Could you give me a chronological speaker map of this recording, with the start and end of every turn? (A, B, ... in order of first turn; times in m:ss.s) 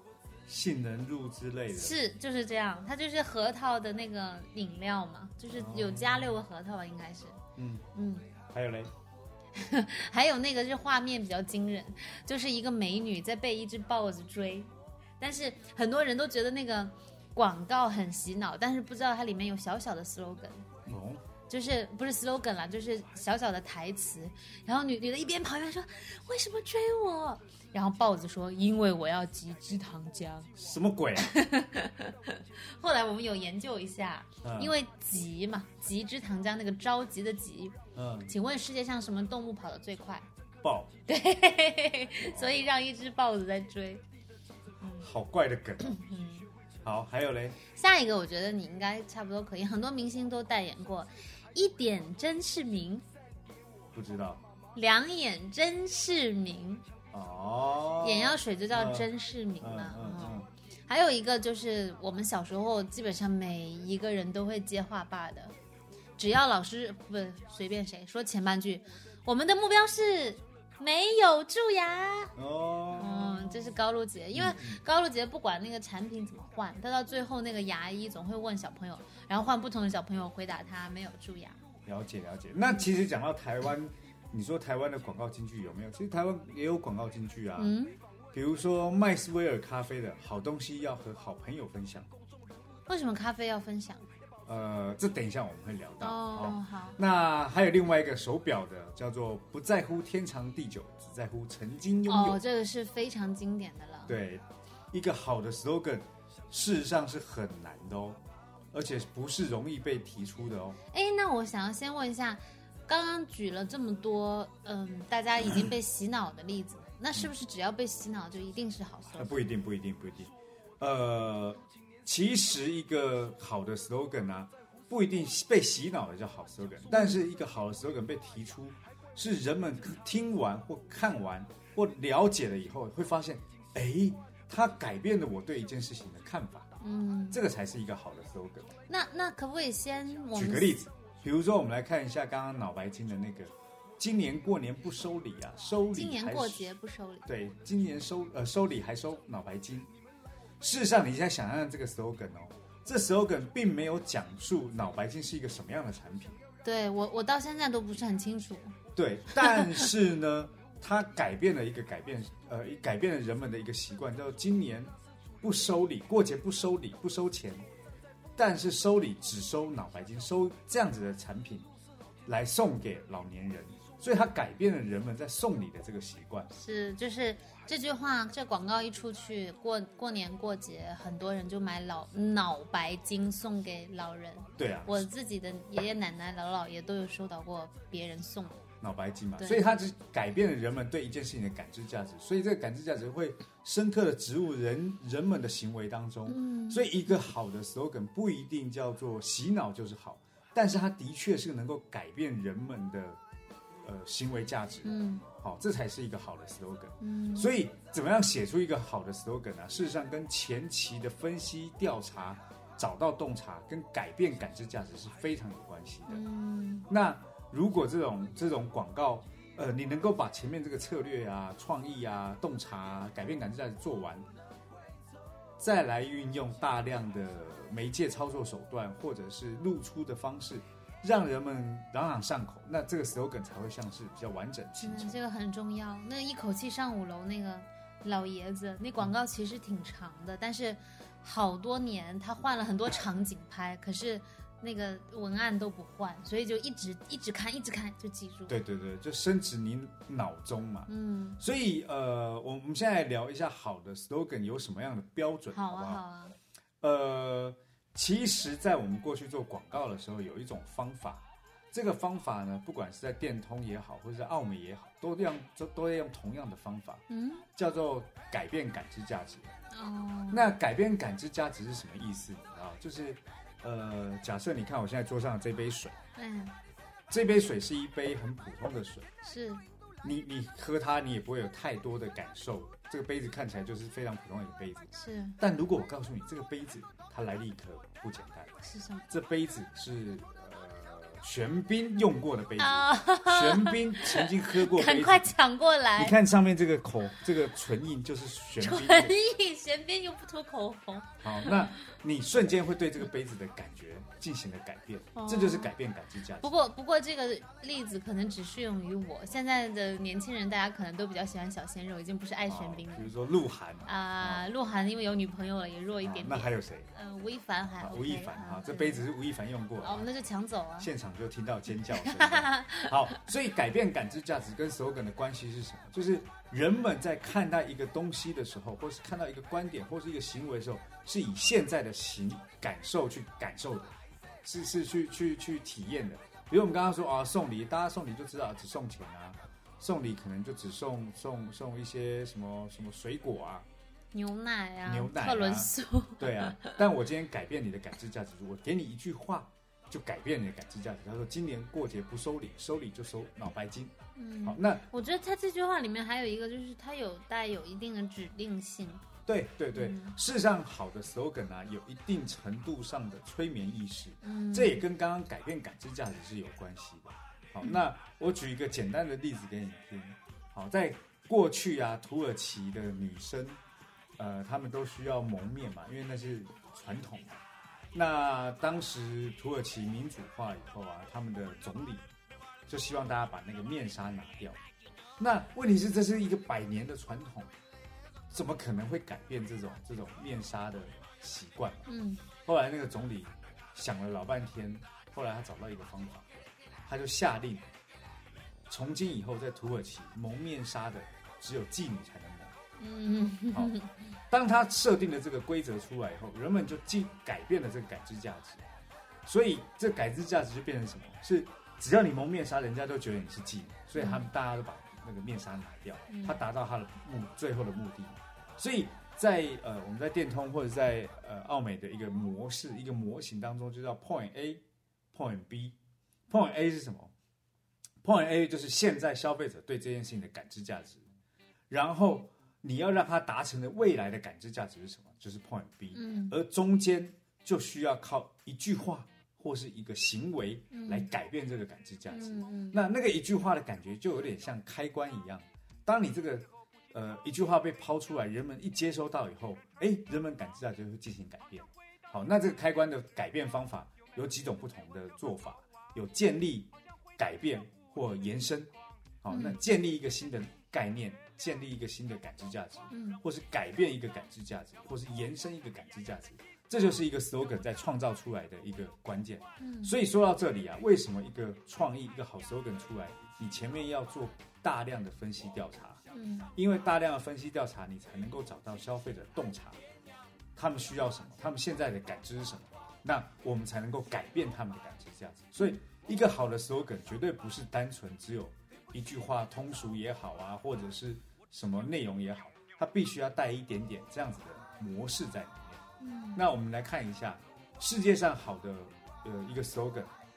0:00.5-0:02.0 A
0:01.7-0:07.4 B
0:05.5-0:06.4 A
0:07.6-0:07.9 A
0:08.0-0:08.3 B
0:08.5-0:08.9 A
0:09.5-0:20.7 B
0:20.9-0:21.2 A
0:21.5-0:30.5 B
0:30.6-0:31.4 A
0:31.2-0:37.8 B
0:34.4-0:34.8 A
0:38.0-0:38.3 A
0:38.3-0:40.3 B
0:40.6-0:40.9 A
0:41.1-0:44.0 B
0:42.2-0:42.6 A
0:44.8-0:45.1 B
0:45.0-0:46.0 A
0:45.8-0:46.5 B
0:46.8-0:47.6 A
0:47.7-0:53.0 B
0:53.9-0:54.4 A
0:54.8-0:56.8 B
0:57.1-0:59.1 A
0:58.0-1:05.6 B
0:59.6-1:00.5 A
1:06.2-1:12.3 B
1:12.4-1:13.8 A
1:12.9-1:21.6 B
1:14.3-1:14.8 A
1:21.9-1:27.8 A
1:27.6-1:28.0 B
1:28.3-1:32.1 A
1:32.9-1:34.0 B
1:34.5-1:42.4 A
1:36.0-1:37.0 B
1:42.1-1:44.2 B
1:44.1-1:48.2 A
1:48.7-1:50.8 A
1:50.9-1:59.4 B
1:59.2-2:16.7 A
2:06.9-2:07.2 B
2:16.8-2:17.4 B
2:17.3-2:18.7 A
2:18.9-2:20.8 B
2:20.4-2:26.7 A
2:25.9-2:27.3 B
2:27.3-2:29.9 A
2:30.6-2:36.4 A
2:36.6-2:38.8 B
2:39.0-2:47.6 A
2:39.4-2:39.9 B
2:48.4-2:51.7 A
2:52.3-2:56.5 A
2:56.5-3:08.6 B
3:04.6-3:05.1 A
3:08.8-3:23.2 A
3:09.4-3:09.6 B
3:16.3-3:16.8 B
3:23.8-3:36.2 A
3:24.8-3:25.2 B
3:27.0-3:27.5 B
3:36.1-3:36.9 B
3:36.9-3:44.3 A
3:45.6-3:55.2 A
3:54.8-4:08.6 B
4:08.5-4:16.0 A
4:10.9-4:11.4 B
4:15.5-4:16.4 B
4:16.8-4:27.0 A
4:27.1-4:27.5 B
4:27.6-4:29.5 A
4:29.7-4:30.5 B
4:30.3-4:36.0 A
4:36.2-4:36.6 B
4:37.1-4:39.1 A
4:39.2-4:39.6 B
4:40.0-4:48.6 A
4:44.9-4:45.4 B
4:48.6-4:49.1 B
4:49.1-4:55.3 A
4:52.6-4:56.2 B
4:56.0-4:59.2 A
4:58.6-5:01.7 B
5:01.2-5:06.7 A
5:05.2-5:05.7 B
5:06.4-5:13.1 B
5:12.5-5:14.5 A
5:13.9-5:19.1 B
5:16.0-5:16.9 A
5:17.8-5:20.1 A
5:19.8-5:20.9 B
5:20.8-5:43.7 A
5:21.9-5:23.1 B
5:44.1-5:46.8 B
5:44.9-5:54.8 A
5:54.2-5:59.1 B
5:59.3-6:13.6 A
5:59.7-6:00.2 B
6:04.2-6:04.8 B
6:14.2-6:17.4 A
6:17.9-6:22.0 A
6:22.7-6:24.6 A
6:25.2-6:27.5 A
6:28.3-6:31.9 A
6:31.9-6:32.2 B
6:32.4-6:36.3 A
6:36.9-6:37.7 A
6:38.7-6:42.5 A
6:42.8-6:43.9 B
6:44.3-6:48.6 A
6:49.3-7:04.6 A
6:54.0-6:54.3 B
6:56.1-6:56.4 B
7:05.1-7:05.8 A
7:06.3-7:07.1 A
7:08.0-7:11.1 A
7:11.7-7:38.7 A
7:15.9-7:16.4 B
7:20.7-7:21.1 B
7:22.1-7:22.8 B
7:39.2-7:56.0 A
7:39.3-7:39.6 B
7:42.9-7:43.2 B
7:49.6-7:50.0 B
7:56.1-7:56.5 B
7:56.6-7:59.8 A
8:00.6-8:15.8 A
8:16.0-8:16.4 B
8:16.4-8:20.1 A